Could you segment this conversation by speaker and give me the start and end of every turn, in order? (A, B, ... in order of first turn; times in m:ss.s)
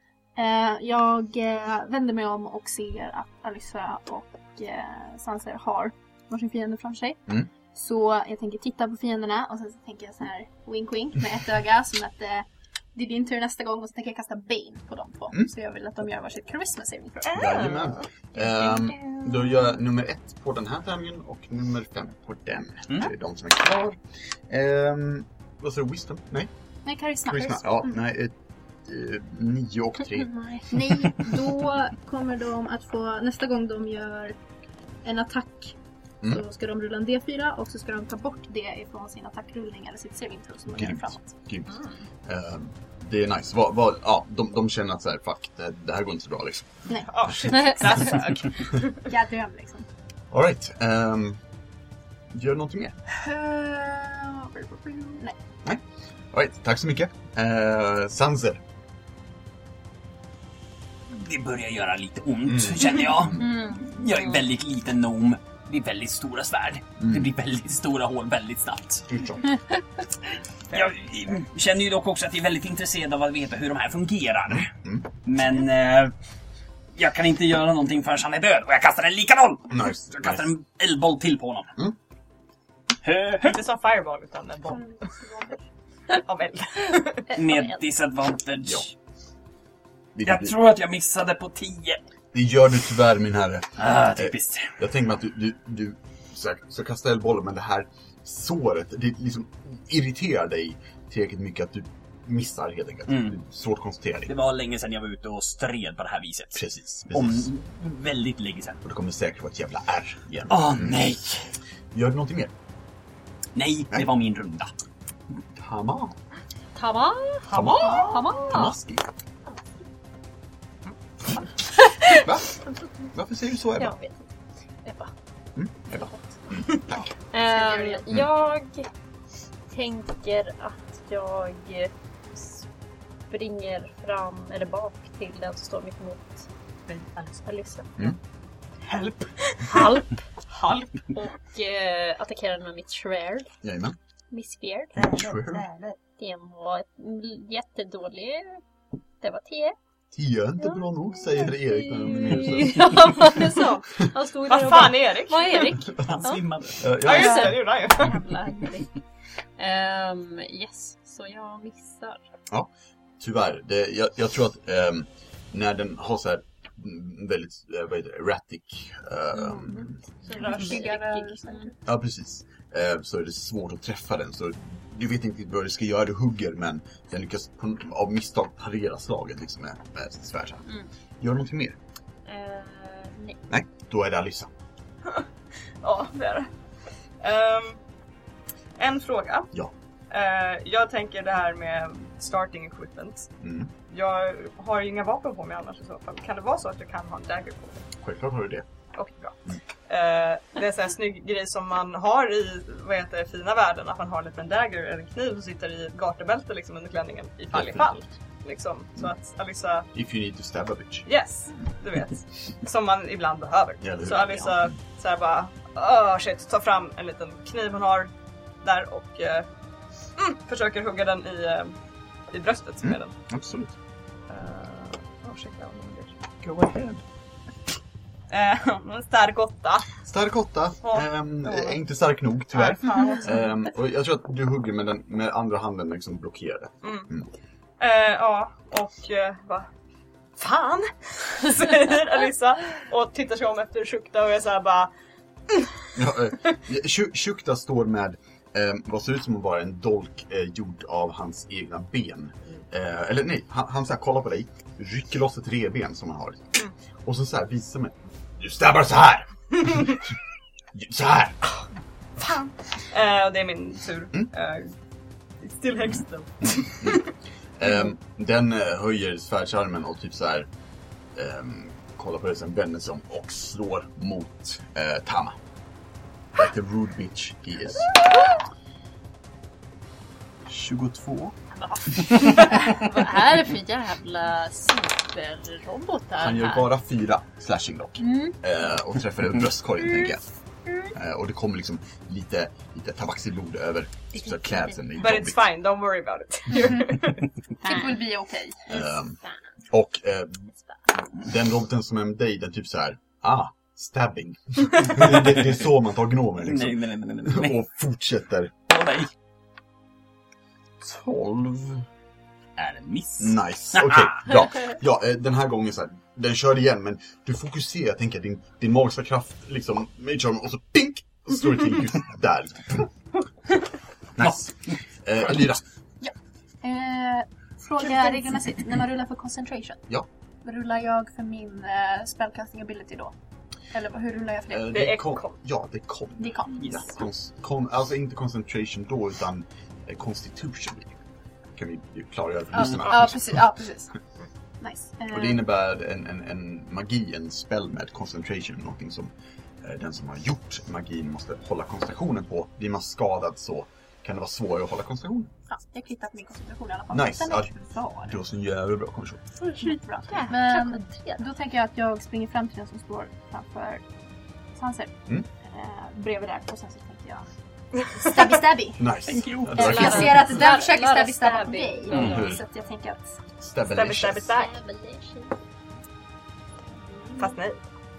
0:00.4-0:17.5 A
0:17.3-0:18.0 B
0:17.3-0:26.5 C
0:26.8-0:27.9 A
0:27.3-0:30.4 C
0:30.5-0:34.4 A
0:35.0-0:41.4 A
0:40.7-0:46.7 C
0:47.0-0:49.1 B
0:49.1-0:49.9 A
0:50.3-0:51.4 C
0:52.3-0:53.0 C
0:53.2-0:55.4 A
0:55.6-0:58.6 C
1:01.1-1:09.1 D
1:02.5-1:03.5 C
1:03.4-1:03.9 E
1:07.0-1:07.3 C
1:09.1-1:09.5 C
1:10.7-1:14.7 D
1:14.5-1:15.0 C
1:15.2-1:16.1 D
1:17.0-1:21.8 D
1:19.7-1:20.5 C
1:23.0-1:23.6 D
1:23.4-1:24.9 B
1:24.7-1:25.6 A
1:26.1-1:27.4 B
1:27.3-1:28.9 D
1:30.1-1:30.6 C
1:30.2-1:32.0 D
1:32.3-1:44.3 C
1:33.8-1:34.8 D
1:43.1-1:43.4 D
1:44.3-1:48.8 D
1:46.6-1:47.5 C
1:48.8-1:51.2 C
1:50.5-1:51.4 D
1:51.9-1:52.5 C
1:53.6-1:54.7 D
1:55.6-1:56.2 C
1:56.7-1:58.8 E
1:57.5-1:58.5 B
1:57.5-1:59.0 C
2:01.8-2:02.2 E
2:02.1-2:02.6 C
2:03.1-2:04.0 C
2:03.8-2:04.3 E
2:04.8-2:05.1 E
2:05.6-2:07.0 C
2:07.3-2:08.9 E
2:07.5-2:08.0 A
2:09.7-2:12.7 E
2:13.3-2:16.5 E
2:16.9-2:17.4 B
2:17.4-2:18.2 E
2:18.8-2:21.0 B
2:19.7-2:20.2 E
2:21.1-2:23.5 E
2:23.6-2:24.0 C
2:24.3-2:25.1 E
2:25.0-2:26.0 B
2:25.0-2:25.7 C
2:26.2-2:28.6 E
2:29.2-2:29.8 E
2:30.1-2:33.5 C
2:30.6-2:36.4 E
2:34.5-2:35.8 B
2:36.0-2:36.8 D
2:36.8-2:37.5 C
2:37.0-2:38.2 B
2:37.0-2:38.9 E
2:39.6-2:42.2 E
2:42.5-2:50.0 C
2:50.2-2:51.7 E
2:50.3-2:51.7 A
2:50.4-2:50.9 B
2:51.8-3:00.7 C
3:01.2-3:01.8 C
3:02.3-3:03.4 E
3:03.5-3:04.5 C
3:05.8-3:06.5 B
3:07.2-3:07.8 B
3:08.8-3:09.5 B
3:10.1-3:13.3 B
3:13.4-3:13.7 C
3:13.9-3:17.9 B
3:18.0-3:18.7 C
3:19.0-3:19.4 B
3:19.9-3:29.9 B
3:27.5-3:28.1 C
3:29.9-3:31.1 C
3:31.0-3:39.4 B
3:33.8-3:34.8 C
3:40.2-3:41.7 B
3:42.3-3:43.1 B
3:42.8-3:43.7 C
3:44.3-3:46.1 B
3:46.4-3:47.0 C
3:48.3-3:49.9 B
3:50.0-3:57.3 C
3:50.8-3:51.8 B
3:52.6-3:53.5 B
3:56.8-3:57.1 B
3:57.8-3:59.7 B
4:00.4-4:04.9 B
4:05.5-4:05.8 B
4:06.0-4:20.0 C
4:19.7-4:19.9 B
4:20.7-4:21.4 C
4:22.2-4:24.7 B
4:25.4-4:27.1 B
4:27.6-4:30.5 C
4:31.1-4:35.4 C
4:36.4-4:37.9 C
4:40.5-4:41.4 C
4:41.6-4:46.7 E
4:46.2-4:50.2 C
4:50.9-4:55.4 C
4:54.2-4:54.8 E
4:55.0-4:57.3 B
4:56.5-4:57.0 A
4:57.6-4:58.1 E
4:57.6-4:58.6 A
4:58.7-4:59.2 C
4:59.7-5:00.5 C
5:01.1-5:08.5 C
5:05.0-5:05.5 D
5:06.4-5:07.6 D
5:08.7-5:09.1 D
5:10.8-5:11.9 C
5:12.6-5:14.6 D
5:13.2-5:22.9 C
5:24.2-5:25.6 C
5:26.0-5:29.8 A
5:27.9-5:28.5 D
5:30.4-5:33.1 A
5:33.7-5:34.7 A
5:34.5-5:41.0 C
5:34.7-5:35.3 B
5:36.2-5:36.9 A
5:41.6-5:43.5 C
5:42.5-5:43.9 A
5:44.6-5:45.4 A
5:45.1-5:55.3 C
5:55.5-5:58.1 A
5:56.9-5:57.5 C
5:58.0-5:59.2 C
5:59.4-6:01.3 E
5:59.6-6:03.8 A
6:04.6-6:07.3 A
6:07.8-6:08.2 B
6:08.0-6:08.9 A
6:08.8-6:10.4 C
6:09.0-6:10.2 D
6:09.5-6:13.2 A
6:09.6-6:12.4 E
6:11.9-6:12.2 D
6:11.9-6:12.4 C
6:13.4-6:14.4 C
6:13.7-6:14.5 B
6:14.3-6:15.4 E
6:17.2-6:17.6 B